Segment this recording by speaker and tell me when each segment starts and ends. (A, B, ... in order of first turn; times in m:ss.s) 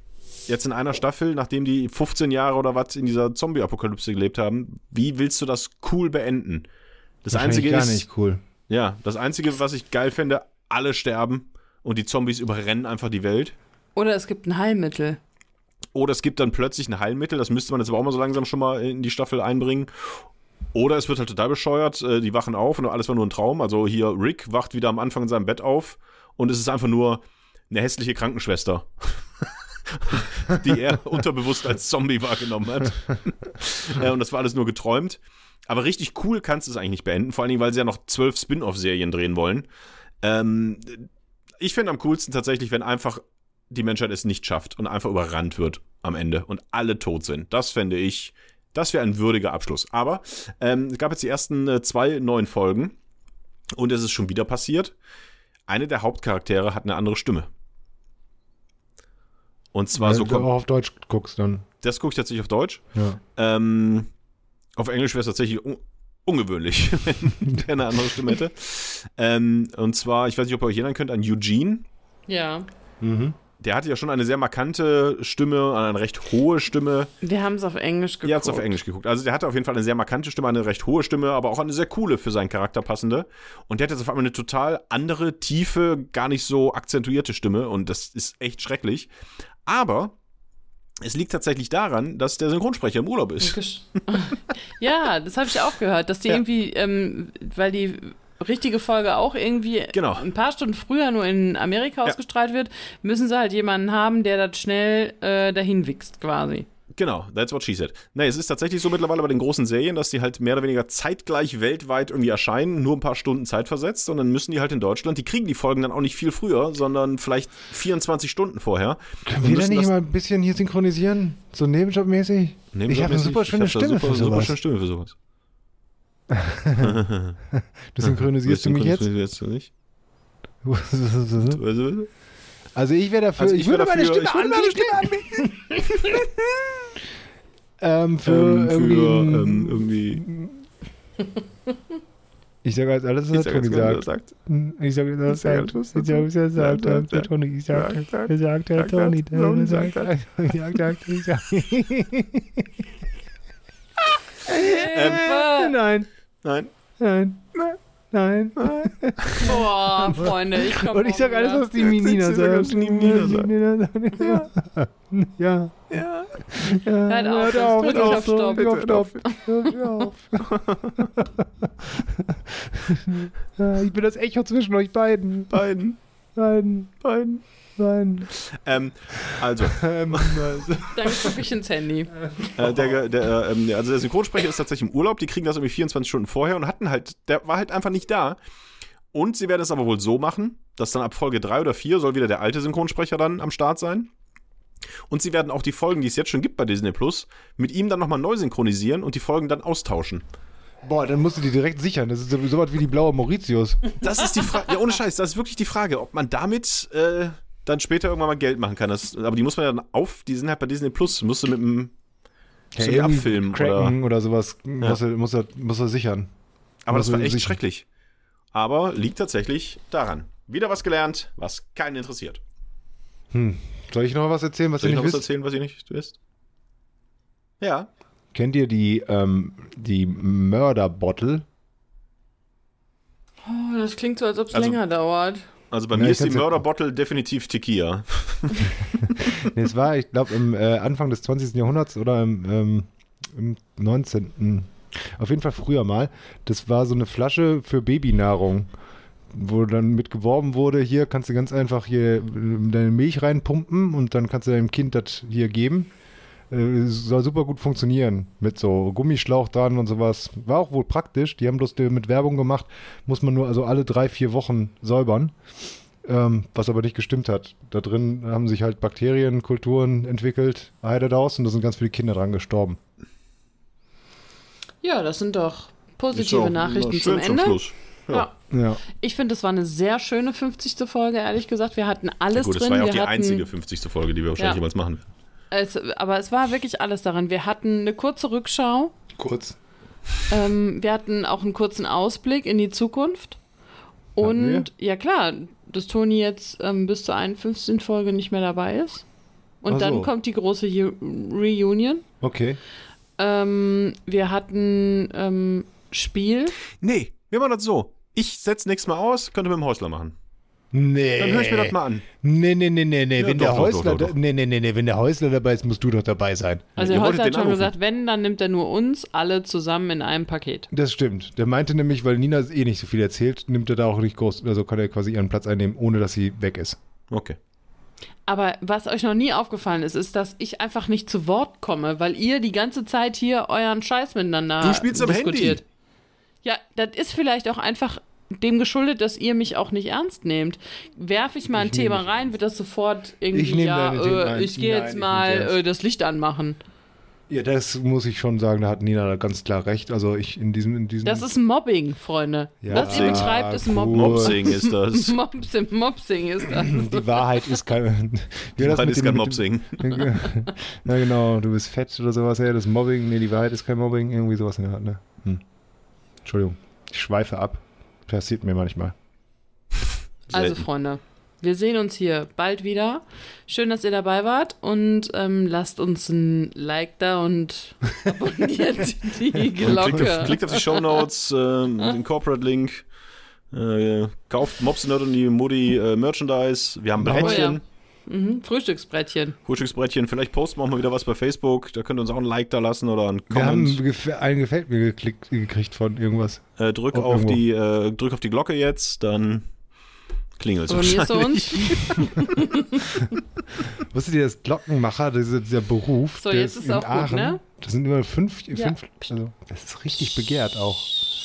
0:00.5-0:06.7 A
0:07.2-0:08.1 A
0:07.3-0:08.4 B
0:08.7-0:13.6 A
0:14.0-0:15.2 C
0:16.0-0:39.7 A
0:40.2-0:53.0 A
0:53.7-0:55.0 A
0:55.7-0:57.5 A
0:59.7-1:00.5 A
0:59.9-1:01.6 B
1:01.8-1:02.8 A
1:03.4-1:04.1 A
1:04.8-1:11.9 A
1:12.3-1:12.7 C
1:13.0-1:13.4 B
1:13.6-1:17.1 A
1:17.2-1:18.8 C
1:18.2-1:29.1 A
1:29.7-1:30.2 A
1:31.0-1:34.0 A
1:33.4-1:46.7 C
1:39.9-1:40.3 A
1:46.9-1:59.9 A
1:59.3-2:04.6 B
2:02.7-2:05.2 A
2:06.3-2:09.1 B
2:06.8-2:07.4 A
2:08.0-2:09.7 A
2:10.6-2:11.6 B
2:11.5-2:12.1 A
2:12.8-2:16.3 B
2:13.4-2:16.3 A
2:17.8-2:20.6 B
2:18.2-2:20.2 A
2:22.6-2:32.7 B
2:23.3-2:24.3 A
2:25.3-2:30.1 A
2:34.4-2:36.1 B
2:34.5-2:35.8 C
2:34.9-2:35.3 A
2:36.4-2:36.7 A
2:37.0-2:45.9 B
2:38.6-2:39.6 A
2:39.4-2:41.7 C
2:41.8-2:43.5 A
2:44.2-2:44.5 A
2:45.9-2:46.6 A
2:46.5-2:55.6 B
2:47.1-2:49.9 C
2:47.9-2:49.2 A
2:50.4-2:51.2 A
2:55.5-2:56.0 A
2:56.4-2:57.0 B
2:57.0-2:57.4 A
2:57.8-2:58.3 B
2:58.3-3:00.6 A
2:59.7-3:01.4 B
3:00.9-3:02.1 C
3:02.3-3:03.0 B
3:02.6-3:08.4 A
3:09.1-3:14.1 A
3:15.1-3:20.2 A
3:20.8-3:23.9 B
3:24.0-3:31.9 A
3:32.7-3:36.3 B
3:32.8-3:34.0 A
3:36.9-3:37.9 A
3:36.9-3:37.6 B
3:38.5-3:42.4 A
3:43.3-3:45.2 B
3:44.8-3:46.2 A
3:47.6-3:47.9 A
3:48.3-3:51.4 B
3:53.4-3:55.4 C
3:54.5-3:54.8 A
3:55.7-3:59.4 A
3:55.9-3:56.6 B
3:59.2-4:08.7 B
4:09.3-4:15.9 B
4:16.5-4:25.4 B
4:26.0-4:32.8 B
4:34.8-4:38.3 C
4:36.1-4:38.3 A
4:38.5-4:38.8 B
4:38.9-4:43.5 C
4:42.3-4:45.1 A
4:45.5-4:48.9 C
4:49.2-4:49.6 B
4:50.3-4:53.4 C
4:54.2-4:59.0 C
4:54.2-4:54.7 B
4:59.6-5:02.0 C
4:59.7-5:00.1 B
5:02.2-5:02.6 B
5:03.2-5:06.6 C
5:06.7-5:10.2 A
5:10.7-5:16.7 B
5:11.2-5:12.0 A
5:13.2-5:14.2 A
5:16.8-5:20.7 C
5:16.8-5:17.7 A
5:20.7-5:26.8 B
5:27.1-5:27.4 A
5:28.3-5:35.6 C
5:34.6-5:35.6 A
5:36.4-5:46.6 C
5:41.5-5:42.3 B
5:43.3-5:45.6 B
5:47.3-5:51.3 B
5:51.0-5:57.5 C
5:52.6-5:54.5 B
5:52.7-5:55.2 A
5:56.6-6:05.4 B
5:58.6-6:00.1 A
6:06.2-6:08.9 B
6:10.3-6:10.6 A
6:10.3-6:21.1 C
6:19.6-6:22.8 A
6:23.5-6:27.6 A
6:27.0-6:27.5 B
6:27.2-6:29.4 C
6:29.5-6:33.8 A
6:33.3-6:37.4 B
6:36.6-6:39.5 A
6:40.4-6:42.5 A
6:40.7-6:43.0 C
6:43.7-6:50.9 B
6:46.2-6:47.4 C